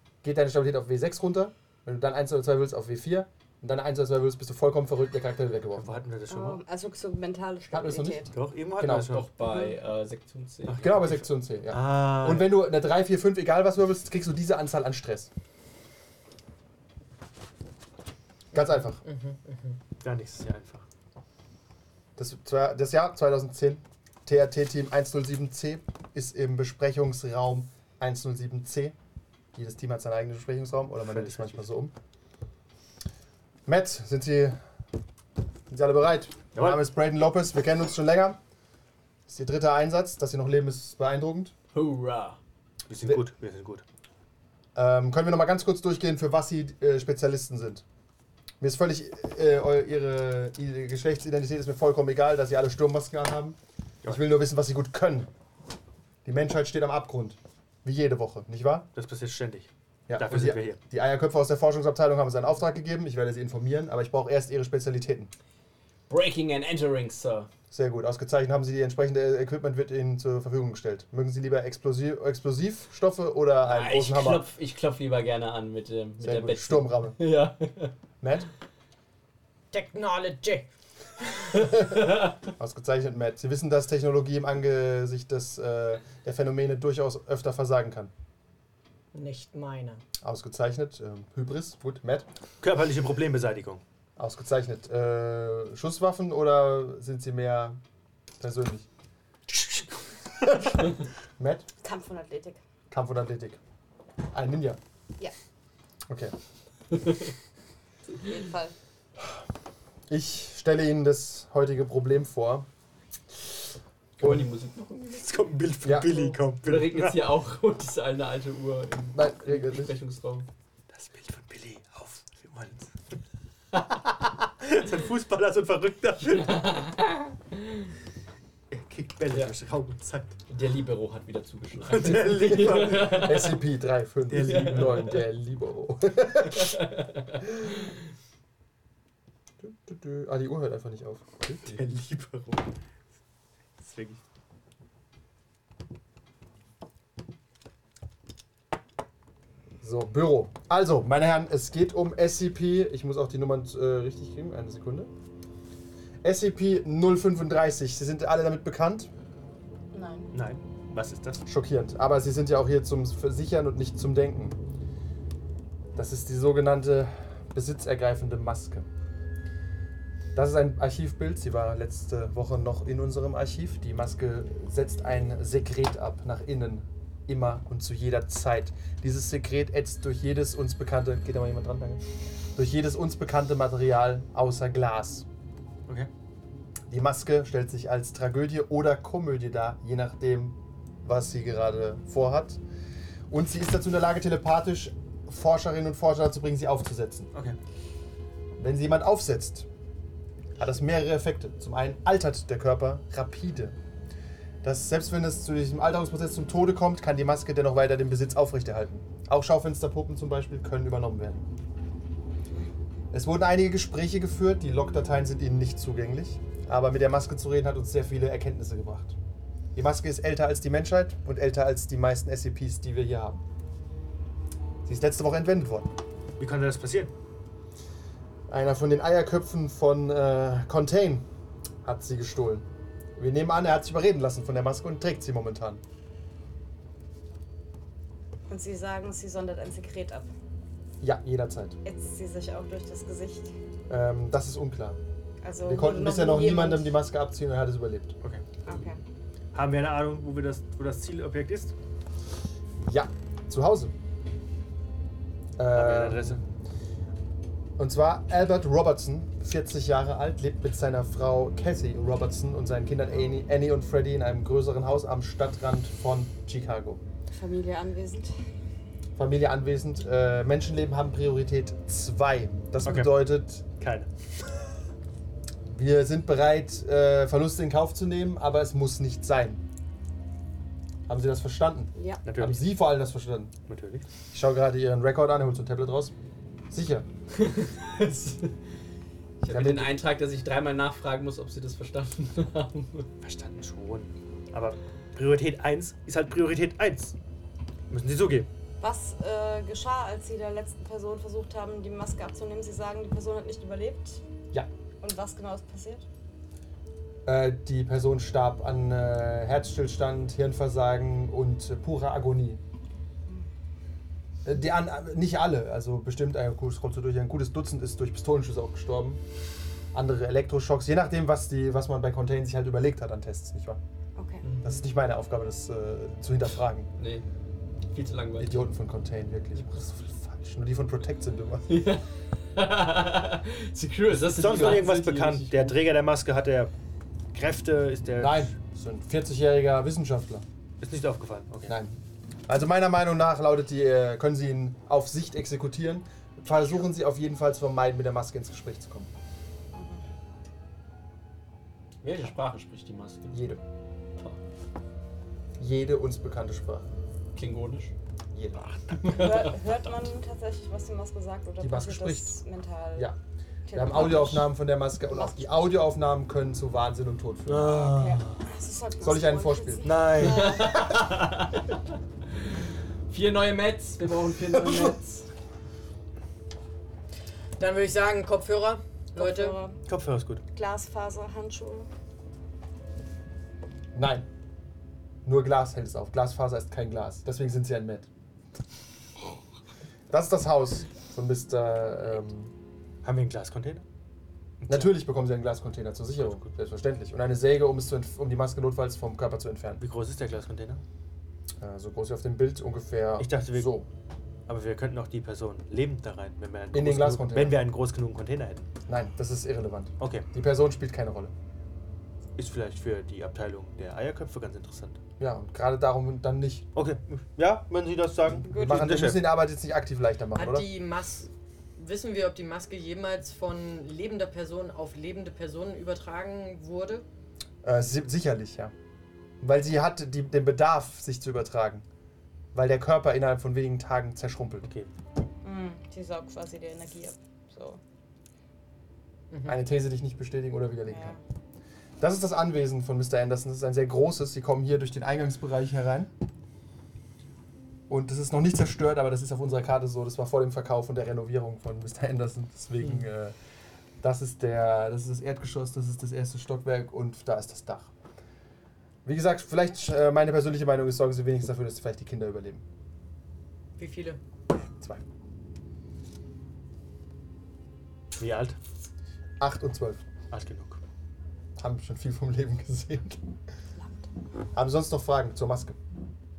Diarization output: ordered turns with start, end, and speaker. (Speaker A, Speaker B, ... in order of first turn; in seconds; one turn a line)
Speaker A: 0.2-5.9
Speaker B: 5.7-6.6
Speaker C: 6.3-8.3
Speaker A: 7.7-8.2
Speaker B: 8.3-9.3
Speaker A: 8.8-9.1
Speaker D: 9.1-11.2
Speaker C: 9.4-9.8
Speaker B: 10.7-11.0
Speaker A: 10.8-15.3
Speaker B: 11.7-12.5
Speaker A: 18.5-19.0
Speaker E: 18.5-19.8
Speaker B: 20.0-20.8
Speaker A: 22.2-28.9
Speaker A: 29.5-31.9
Speaker B: 31.0-31.6
Speaker A: 33.6-34.6
Speaker A: 35.7-38.4
Speaker B: 36.5-36.8
Speaker A: 39.3-41.5
Speaker D: 41.7-42.4
Speaker B: 42.9-43.8
Speaker A: 44.7-47.8
Speaker A: 48.6-55.3
Speaker A: 56.2-58.9
Speaker B: 58.9-60.8
Speaker A: 60.1-65.3
Speaker D: 66.1-67.5
Speaker A: 67.7-74.5
Speaker D: 73.6-77.9
Speaker A: 76.2-77.2
Speaker A: 78.2-78.5
Speaker E: 79.7-80.7
Speaker D: 81.5-82.4
Speaker A: 82.6-88.1
Speaker E: 89.1-90.0
Speaker A: 90.2-92.3
Speaker B: 92.6-93.8
Speaker A: 94.2-97.8
Speaker A: 98.4-98.9
Speaker A: 100.3-101.7
Speaker C: 101.8-102.6
Speaker A: 102.9-103.6
Speaker A: 104.3-104.8
Speaker A: 106.1-106.3
Speaker C: 108.1-108.7
Speaker A: 110.1-112.7
Speaker D: 114.2-115.3
Speaker A: 114.2-114.5
Speaker B: 115.1-117.3
Speaker A: 115.8-116.2
Speaker D: 116.6-120.5
Speaker A: 119.1-119.9
Speaker B: 120.9-122.9
Speaker B: 124.1-126.9
Speaker D: 126.5-126.9
Speaker B: 128.7-130.3
Speaker D: 130.5-133.6
Speaker B: 131.8-133.4
Speaker A: 132.9-136.8
Speaker B: 134.3-135.1
Speaker D: 134.4-135.2
Speaker D: 136.6-137.2
Speaker A: 139.6-141.6
Speaker B: 141.6-142.7
Speaker B: 143.8-144.2
Speaker A: 149.8-155.1
Speaker A: 156.2-159.1
Speaker C: 159.9-160.3
Speaker B: 160.3-161.4
Speaker A: 161.4-164.6
Speaker A: 165.9-168.8
Speaker A: 170.3-182.0
Speaker A: 182.5-185.2
Speaker A: 186.9-192.6
Speaker A: 193.3-197.3
Speaker A: 198.6-199.7
Speaker A: 200.6-203.8
Speaker A: 204.6-211.4
Speaker A: 213.1-219.2
Speaker A: 219.7-223.4
Speaker A: 224.8-225.9
Speaker B: 226.4-227.1
Speaker A: 228.5-231.2
Speaker A: 231.8-235.8
Speaker C: 238.5-240.3
Speaker A: 241.0-241.8
Speaker C: 241.8-243.5
Speaker A: 243.9-245.0
Speaker C: 245.4-247.0
Speaker A: 245.6-248.1
Speaker C: 248.6-249.0
Speaker B: 249.5-251.7
Speaker A: 252.8-253.9
Speaker A: 255.6-256.4
Speaker B: 255.7-256.4
Speaker A: 257.8-267.0
Speaker C: 267.3-268.3
Speaker A: 269.1-273.6
Speaker B: 272.8-273.1
Speaker B: 273.8-274.1
Speaker A: 275.7-279.6
Speaker A: 281.1-283.6
Speaker C: 281.9-282.2
Speaker B: 282.2-282.6
Speaker B: 283.7-284.1
Speaker A: 284.3-286.1
Speaker A: 286.7-287.1
Speaker D: 287.4-288.5
Speaker D: 289.4-293.1
Speaker A: 289.5-289.9
Speaker B: 293.2-297.1
Speaker B: 297.9-298.5
Speaker C: 298.8-304.2
Speaker C: 305.0-306.1
Speaker A: 307.2-312.6
Speaker A: 314.4-319.2
Speaker A: 319.9-323.8
Speaker C: 324.1-324.4
Speaker D: 324.4-324.8
Speaker A: 324.6-326.9
Speaker D: 327.0-327.2
Speaker D: 327.9-328.6
Speaker A: 328.4-331.8
Speaker D: 331.7-332.0
Speaker D: 332.5-335.7
Speaker B: 334.2-336.7
Speaker B: 337.3-338.5
Speaker A: 338.2-340.4
Speaker B: 340.8-341.8
Speaker A: 341.7-341.9
Speaker A: 342.5-349.1
Speaker C: 349.7-350.0
Speaker D: 352.0-353.4
Speaker A: 353.3-353.6
Speaker A: 355.6-356.9
Speaker D: 357.3-357.9
Speaker A: 358.3-358.7
Speaker D: 359.0-359.5
Speaker C: 359.0-363.1
Speaker A: 361.6-362.4
Speaker C: 363.7-364.5
Speaker A: 363.7-367.9
Speaker C: 365.1-365.7
Speaker B: 367.5-368.4
Speaker C: 367.9-370.9
Speaker A: 369.0-370.1
Speaker B: 369.8-370.6
Speaker D: 370.2-371.7
Speaker D: 373.1-375.3
Speaker A: 374.6-374.9
Speaker E: 377.6-379.6
Speaker C: 379.1-379.8
Speaker B: 379.9-380.4
Speaker C: 380.5-381.9
Speaker A: 383.9-384.2
Speaker A: 385.2-388.1
Speaker A: 390.1-392.5
Speaker B: 393.0-393.8
Speaker B: 394.6-394.9
Speaker A: 394.7-399.8
Speaker B: 399.8-400.8
Speaker A: 401.6-403.9
Speaker B: 403.2-403.7
Speaker B: 404.5-408.6
Speaker A: 406.7-407.6
Speaker A: 408.9-411.3
Speaker B: 410.0-410.3
Speaker B: 412.4-415.0
Speaker A: 415.2-416.7
Speaker B: 416.7-419.3
Speaker C: 418.5-418.9
Speaker A: 418.5-420.7
Speaker E: 420.3-427.0
Speaker A: 427.6-428.7
Speaker A: 429.4-431.8
Speaker A: 432.5-434.7
Speaker B: 434.6-434.9
Speaker C: 435.4-437.8
Speaker E: 439.3-439.6
Speaker A: 439.4-441.2
Speaker C: 440.9-441.2
Speaker A: 442.0-446.1
Speaker A: 447.9-453.3
Speaker A: 454.0-457.9
Speaker A: 459.0-462.6
Speaker E: 463.8-464.2
Speaker B: 468.2-468.6
Speaker A: 469.4-470.0
Speaker B: 470.3-470.8
Speaker A: 471.6-473.2
Speaker A: 474.5-475.8